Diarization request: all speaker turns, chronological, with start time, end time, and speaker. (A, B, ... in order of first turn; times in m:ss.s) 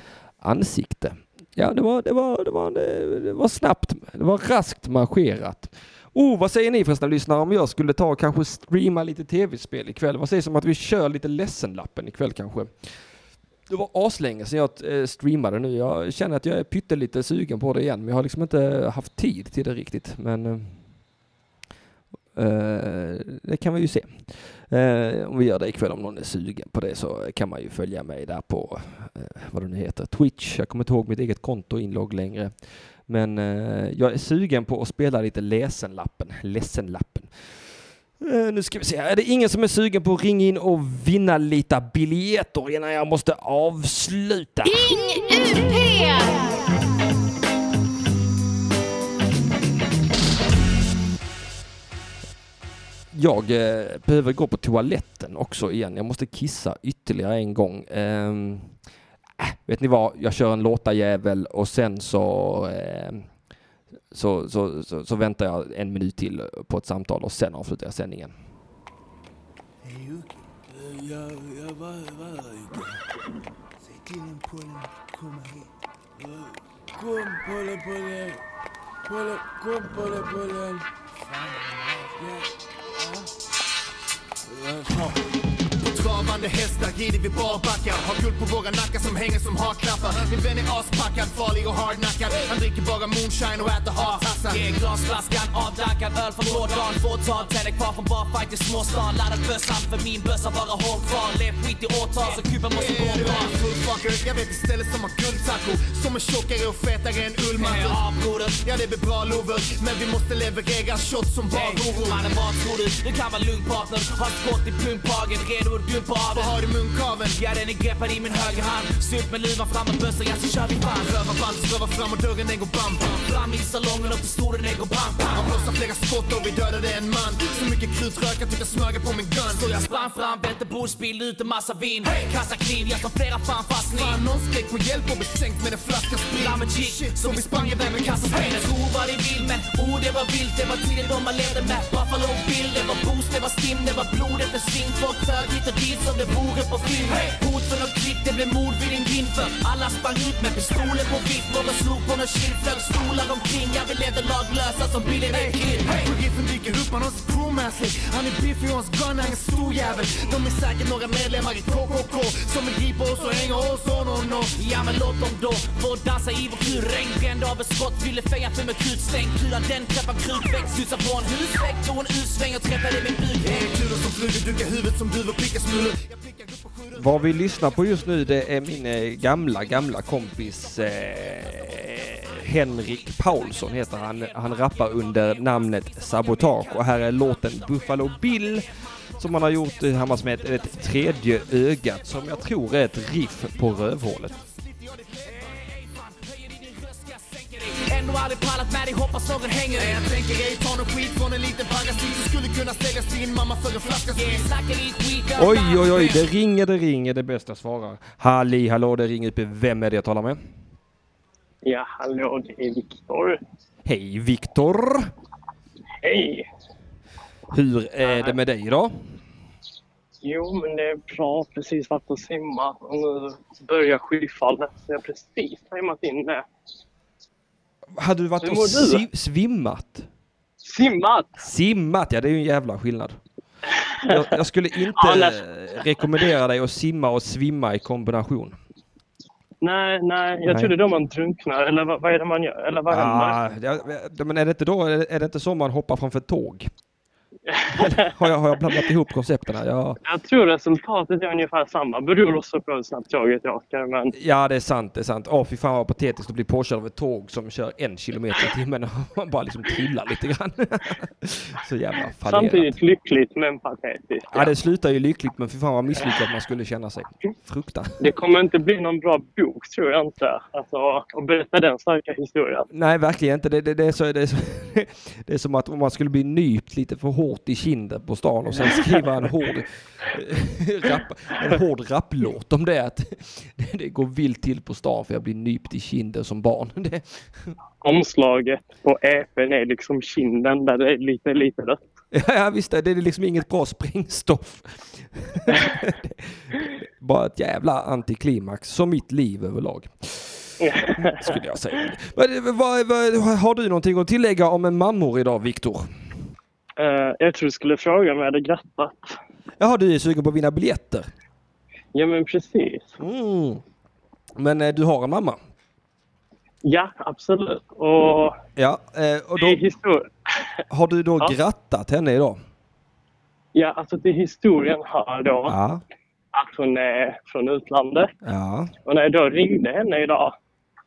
0:00.4-0:12.7 A
0:13.7-0:20.8 A
0:22.4-0:32.5 A
0:33.1-0:37.3 A
0:38.2-0:44.7 A
0:44.6-0:46.6 B
0:53.1-0:58.7 A
0:59.4-1:03.3 A
1:04.1-1:08.3 A
1:09.9-1:10.2 C
1:10.8-1:12.8 C
1:14.0-1:15.5 C
1:17.0-1:18.3 C
1:19.1-1:20.8 C
1:24.7-1:25.0 C
1:25.8-1:34.6 D
1:34.5-1:43.5 E
1:42.2-1:48.0 D
1:47.6-1:48.6 E
1:48.6-1:52.4 D
1:51.5-1:56.5 E
1:56.3-1:57.4 D
1:57.4-2:01.2 E
2:01.0-2:03.2 D
2:03.1-2:05.4 E
2:05.3-2:10.2 D
2:09.6-2:14.2 E
2:13.8-2:18.8 D
2:16.3-2:36.1 E
2:35.3-2:44.5 D
2:44.6-2:53.8 E
2:53.1-2:57.3 D
2:56.9-3:08.6 A
3:02.8-3:08.5 E
3:09.2-3:14.4 A
3:09.6-3:10.6 E
3:14.4-3:15.2 D
3:15.4-3:20.1 E
3:19.7-3:24.5 D
3:24.1-3:26.2 E
3:25.4-3:30.4 A
3:31.6-3:33.4 F
3:33.8-3:35.1 A
3:36.0-3:36.5 F
3:37.5-3:39.0 A
3:38.0-3:38.4 F
3:40.2-3:46.5 F
3:48.0-3:50.1 A
3:48.4-3:49.0 F
3:50.6-3:51.4 F
3:51.4-3:53.2 A
3:54.1-3:58.6 A
3:54.9-3:55.4 F
3:59.6-4:03.4 F
4:00.4-4:00.7 A
4:02.9-4:06.7 A
4:07.5-4:08.1 F
4:07.7-4:10.0 A
4:10.0-4:14.1 F
4:14.1-4:22.7 A
4:22.2-4:24.5 F
4:24.3-4:28.0 A
4:28.0-4:32.7 F
4:32.7-4:47.5 A
4:38.6-4:38.9 F
4:47.8-4:51.8 F
4:52.1-5:05.9 A
5:00.6-5:01.3 F
5:06.8-5:09.2 F
5:09.6-5:11.1 A
5:11.9-5:13.0 F
5:13.0-5:13.6 A
5:14.4-5:15.4 A
5:16.6-5:18.4 F
5:18.6-5:19.6 A
5:19.4-5:20.1 F
5:20.7-5:22.4 A
5:23.5-5:25.6 F
5:25.5-5:25.8 A
5:26.3-5:28.1 F
5:28.2-5:28.7 A
5:28.8-5:30.4 F